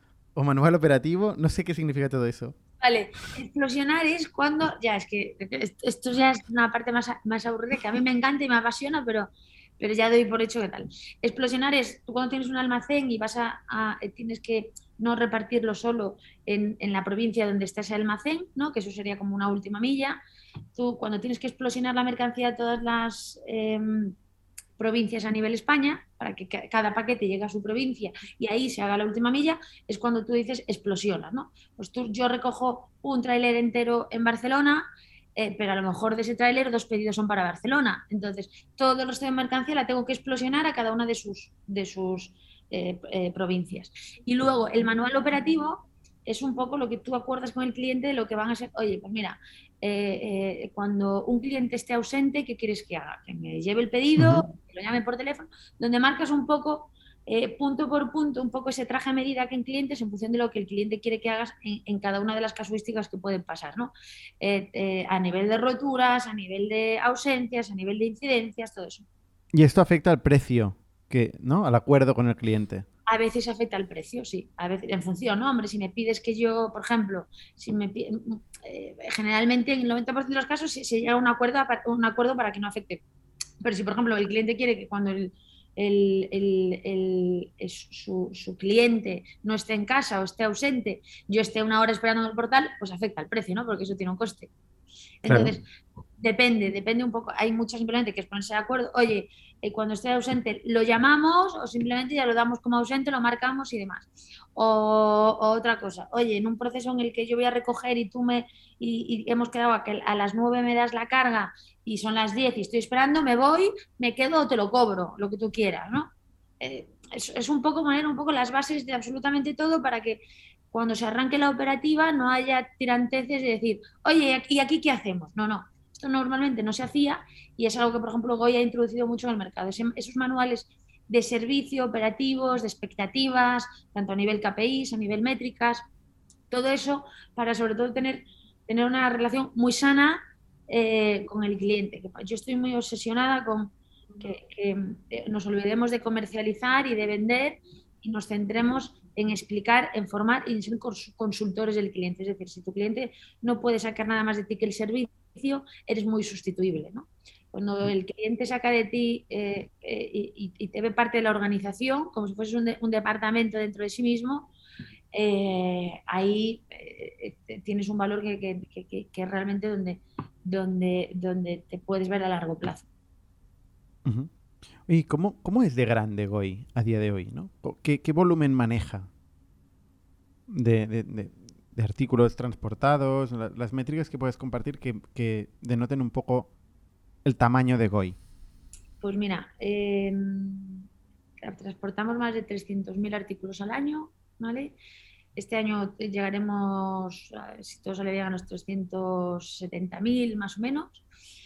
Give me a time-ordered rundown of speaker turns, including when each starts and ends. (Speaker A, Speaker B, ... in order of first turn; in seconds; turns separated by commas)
Speaker A: 0.3-2.6, Speaker B: 2.8-20.2, Speaker B: 20.8-24.2, Speaker B: 24.8-69.1, Speaker A: 69.5-72.9, Speaker B: 73.1-83.0, Speaker B: 83.6-94.5, Speaker B: 95.2-95.6, Speaker A: 95.3-95.5, Speaker B: 96.2-135.9, Speaker B: 136.5-164.5, Speaker B: 165.1-172.9, Speaker A: 174.1-174.3, Speaker A: 174.9-179.1, Speaker A: 180.5-186.5, Speaker A: 187.2-188.2, Speaker B: 189.0-190.9, Speaker B: 191.4-194.8, Speaker B: 195.4-201.0